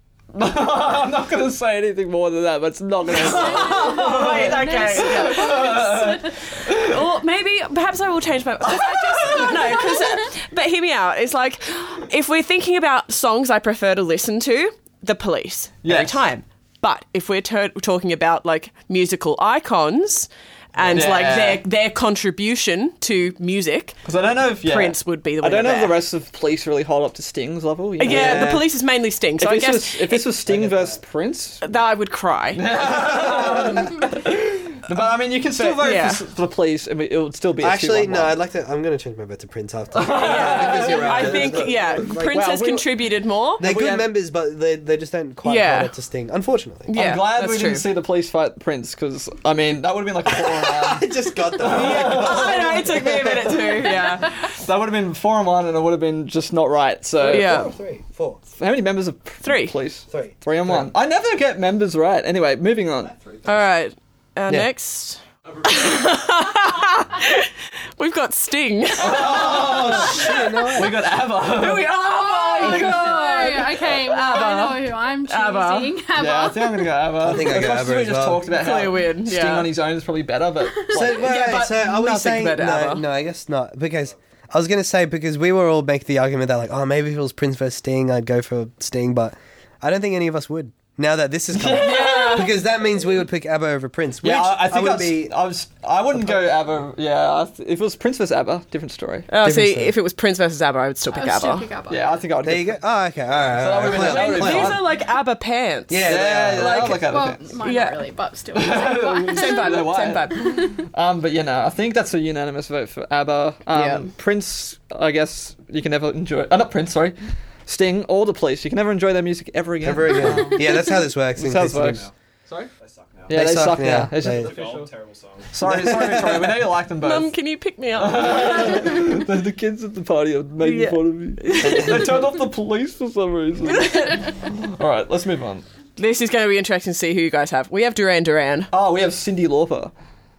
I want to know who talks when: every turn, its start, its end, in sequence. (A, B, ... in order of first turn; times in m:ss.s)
0:00.3-0:07.0 A
0:03.1-0:06.4 B
0:03.1-0:24.0 C
0:08.6-0:09.9 A
0:15.8-0:16.2 A
0:20.8-0:21.3 D
0:20.9-0:21.6 A
0:24.0-0:28.6 A
0:24.6-0:26.0 C
0:28.0-0:30.2 C
0:28.0-0:28.6 D
0:29.4-0:31.6 A
0:30.4-0:31.0 D
0:31.6-0:32.6 C
0:32.5-0:38.4 A
0:33.4-0:33.7 C
0:33.4-0:34.0 D
0:35.6-0:36.2 C
0:37.6-0:42.4 D
0:39.9-0:42.9 A
0:40.1-0:43.6 C
0:43.6-0:44.1 A
0:43.6-0:46.9 D
0:45.4-0:45.9 C
0:46.9-0:47.8 C
0:46.9-0:57.7 A
0:50.3-0:53.5 D
0:51.6-0:54.5 C
0:57.2-0:58.4 D
0:57.2-0:57.7 C
0:58.6-1:03.1 A
0:59.4-0:59.7 C
1:00.1-1:00.9 D
1:03.1-1:03.7 E
1:03.4-1:10.5 C
1:05.6-1:06.0 E
1:09.0-1:12.0 A
1:09.1-1:11.0 D
1:11.4-1:15.9 C
1:12.1-1:16.9 B
1:12.6-1:13.6 A
1:16.2-1:21.6 A
1:17.2-1:18.4 D
1:18.5-1:19.7 C
1:20.9-1:35.3 D
1:21.1-1:23.0 C
1:31.5-1:32.6 A
1:31.8-1:32.5 C
1:34.2-1:39.3 A
1:39.3-1:41.7 C
1:39.4-1:40.0 D
1:41.1-1:42.1 B
1:41.9-1:42.8 A
1:42.4-1:44.8 D
1:43.4-1:44.8 A
1:43.9-1:47.0 C
1:45.9-1:47.0 D
1:46.0-1:47.5 A
1:47.1-1:49.9 B
1:47.6-1:48.0 C
1:48.5-2:02.7 A
1:49.3-1:50.8 C
1:53.7-1:54.1 C
1:59.8-2:02.0 D
2:01.7-2:02.1 E
2:02.8-2:06.2 E
2:03.3-2:04.5 D
2:03.3-2:04.9 A
2:05.5-2:07.3 A
2:05.6-2:06.6 D
2:07.0-2:09.2 C
2:08.0-2:15.6 A
2:10.6-2:12.2 C
2:13.7-2:14.3 C
2:16.0-2:18.7 C
2:18.7-2:19.9 A